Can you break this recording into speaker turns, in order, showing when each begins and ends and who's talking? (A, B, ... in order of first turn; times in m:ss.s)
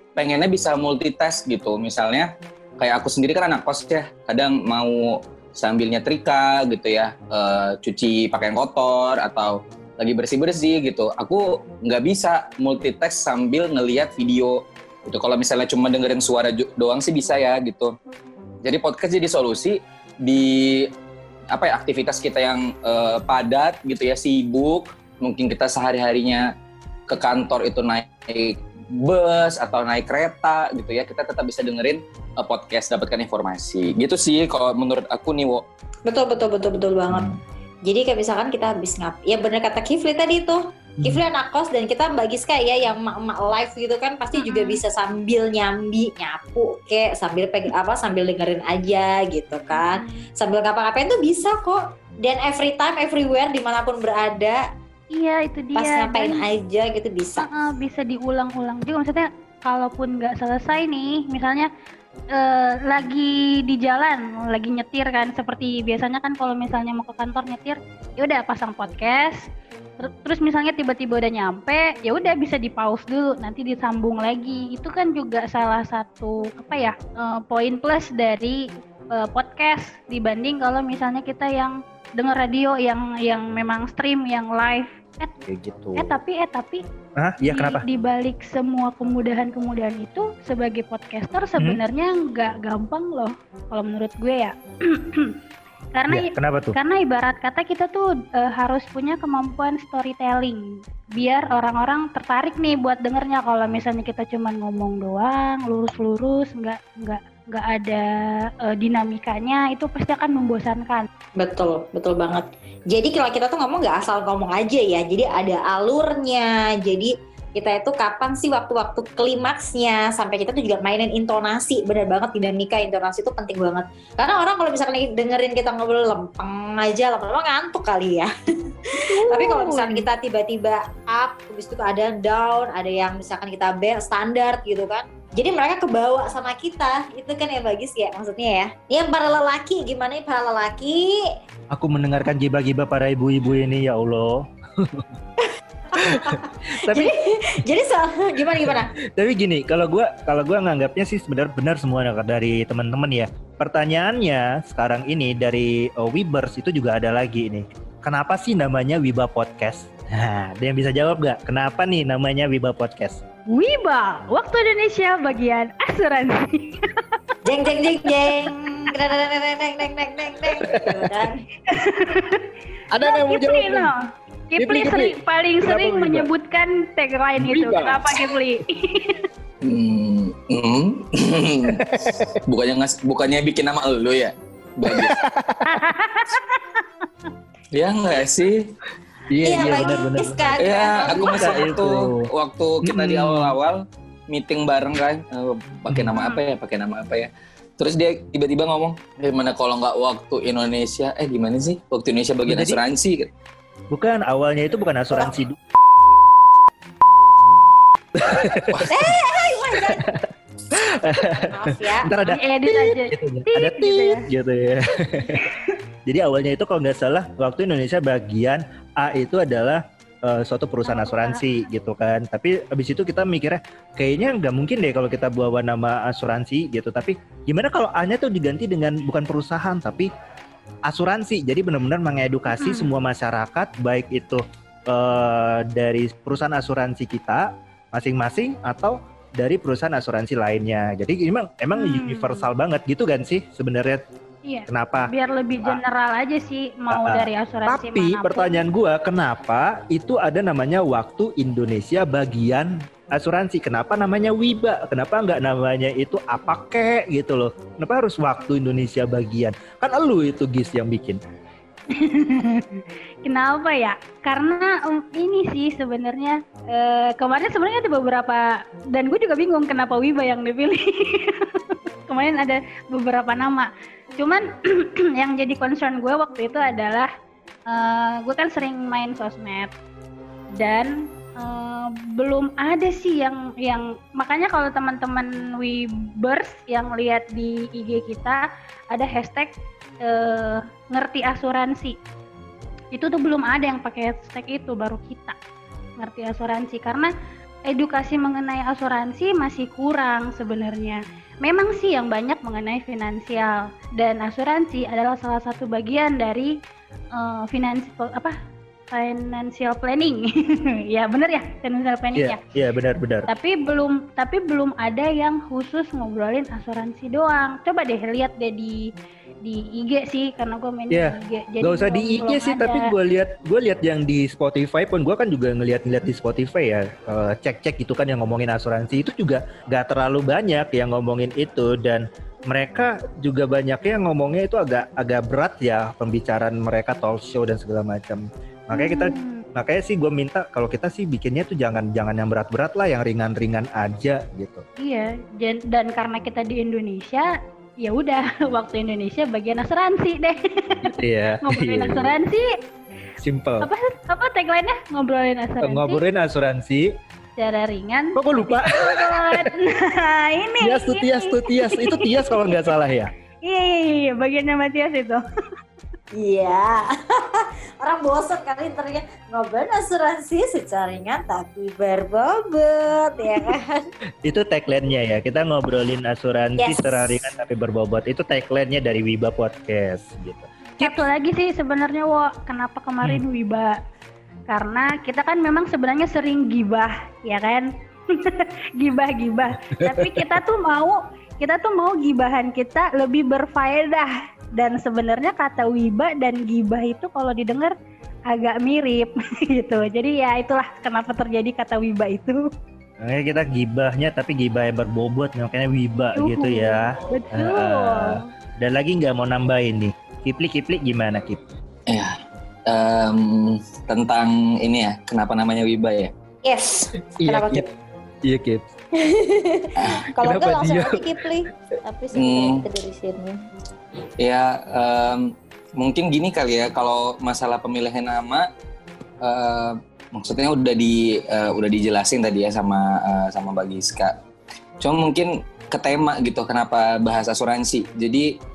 0:00.2-0:18.0 A
0:18.6-0:20.9 A
0:21.5-0:26.5 A
0:27.1-0:35.6 A
0:36.1-0:54.6 B
0:44.4-0:44.8 C
0:49.7-0:50.2 C
0:55.1-0:56.4 C
0:55.8-0:57.5 B
0:57.4-1:01.7 C
1:02.3-1:09.4 C
1:10.0-1:25.3 C
1:25.4-1:26.1 D
1:26.0-1:26.8 C
1:27.2-1:27.8 D
1:27.4-1:35.4 C
1:35.9-1:48.1 C
1:36.1-1:36.8 D
1:48.6-1:51.1 C
1:51.4-2:08.3 B
2:08.9-2:21.2 B
2:09.1-2:10.1 C
2:21.7-2:25.2 D
2:25.4-2:28.9 B
2:26.0-2:27.1 D
2:28.6-2:43.2 D
2:43.5-2:47.3 C
2:47.4-2:51.4 B
2:50.6-2:51.1 D
2:51.7-2:52.4 C
2:52.9-2:53.9 D
2:53.0-2:59.2 C
2:54.6-2:56.3 D
2:57.4-2:58.4 D
2:59.6-3:01.8 A
3:01.7-3:02.4 D
3:02.4-3:05.2 A
3:04.8-3:06.0 D
3:05.6-3:06.8 C
3:07.7-3:08.7 A
3:09.3-3:12.2 D
3:09.4-3:11.8 B
3:10.6-3:23.3 A
3:12.8-3:13.6 D
3:22.5-3:22.8 D
3:23.9-3:25.6 D
3:28.1-3:29.2 D
3:28.7-3:29.2 A
3:28.9-3:30.0 B
3:29.7-3:35.5 D
3:31.3-3:32.1 B
3:32.2-3:34.2 C
3:35.3-3:35.6 C
3:36.1-3:50.1 D
3:40.8-3:41.4 C
3:50.9-4:04.0 D
3:52.5-3:52.9 C
4:01.8-4:02.5 C
4:04.5-4:08.6 C
4:04.7-4:05.1 D
4:06.9-4:21.2 D
4:21.9-4:37.1 C
4:37.7-4:39.7 C
4:40.5-4:48.4 C
4:48.9-4:52.0 C
4:52.9-4:55.4 C
4:56.0-4:57.1 C
4:57.7-5:06.5 C
5:07.1-5:08.4 C
5:08.9-5:12.4 C
5:12.1-5:13.3 D
5:13.3-5:18.9 C
5:19.4-5:22.9 C
5:20.9-5:44.6 D
5:38.7-5:39.4 C
5:44.8-5:52.5 C
5:50.8-5:52.1 D
5:53.2-5:53.7 D
5:53.6-5:56.0 C
5:55.6-5:56.9 D
5:57.4-6:02.6 C
5:58.2-5:59.5 D
6:00.6-6:03.1 D
6:03.4-6:05.2 C
6:06.1-6:13.9 B
6:14.2-6:21.0 D
6:16.6-6:17.2 B
6:20.8-6:23.8 C
6:24.5-6:37.8 C
6:29.8-6:30.4 D
6:38.3-6:42.5 C
6:43.0-6:51.5 D
6:46.1-6:48.2 C
6:51.9-6:56.1 A
6:56.4-6:57.7 B
6:57.2-6:57.7 D
6:58.2-6:58.7 D
6:59.0-7:03.4 B
6:59.8-7:00.0 A
7:00.2-7:01.2 D
7:02.1-7:02.6 A
7:04.2-7:08.5 A
7:09.2-7:14.2 A
7:14.8-7:18.3 A